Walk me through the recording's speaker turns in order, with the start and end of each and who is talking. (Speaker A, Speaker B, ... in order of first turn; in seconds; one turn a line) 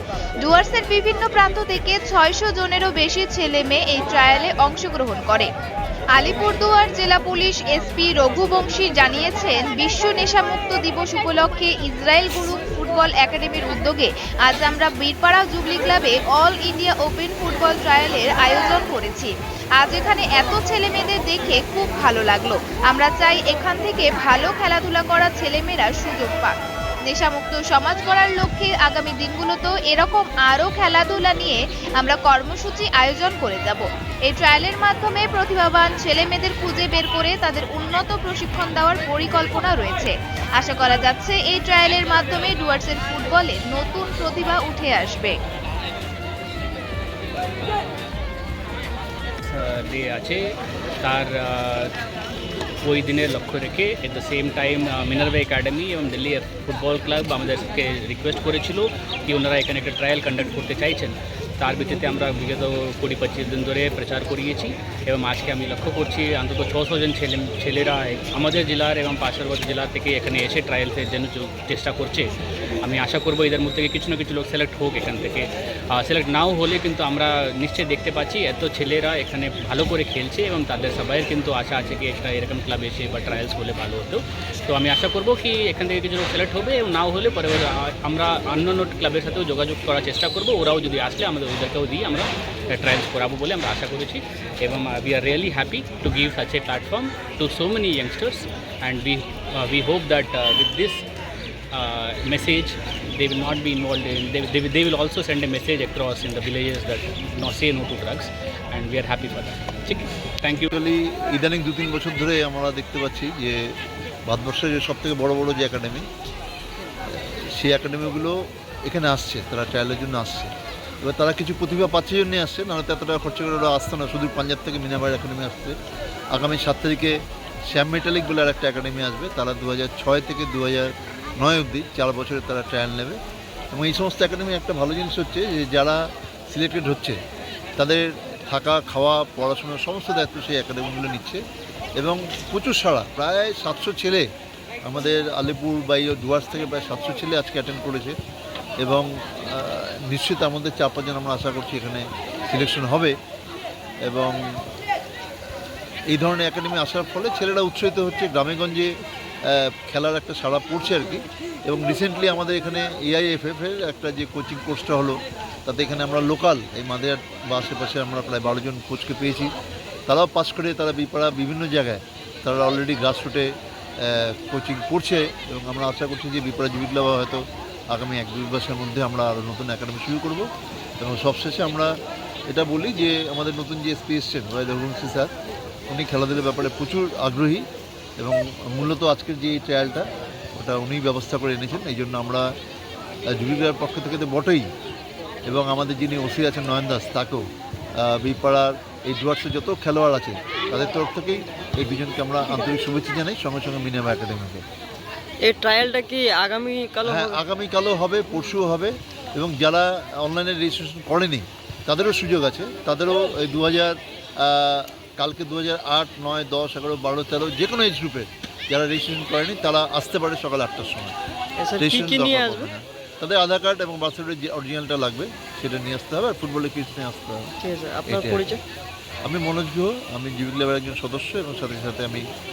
Speaker A: 0.4-5.5
Speaker A: 6.2-26.5
Speaker A: 27.1-45.4
Speaker B: 49.4-50.5
Speaker B: 51.0-51.9
Speaker B: 52.8-72.3
Speaker B: 72.8-101.0
Speaker B: 101.7-110.7
Speaker C: 110.7-113.7
Speaker C: 114.3-116.1
Speaker C: 117.1-120.5
Speaker C: 121.0-125.8
Speaker C: 126.3-127.2
Speaker C: 127.7-133.2
Speaker C: 133.7-137.2
Speaker C: 137.8-141.4
Speaker C: 142.0-144.3
Speaker C: 144.8-148.2
Speaker C: 148.8-153.2
Speaker C: 154.0-154.6
Speaker C: 156.1-158.9
Speaker C: 159.4-169.5
Speaker C: 170.1-180.5
Speaker C: 181.0-181.9
Speaker C: 182.5-185.3
Speaker C: 185.9-187.7
Speaker C: 188.2-192.5
Speaker C: 193.3-194.7
Speaker C: 195.5-197.5
Speaker C: 198.0-204.6
Speaker D: 205.4-207.4
Speaker C: 207.1-221.1
Speaker D: 221.6-222.7
Speaker C: 221.8-227.4
Speaker D: 227.6-228.6
Speaker C: 228.1-228.5
Speaker C: 229.2-232.2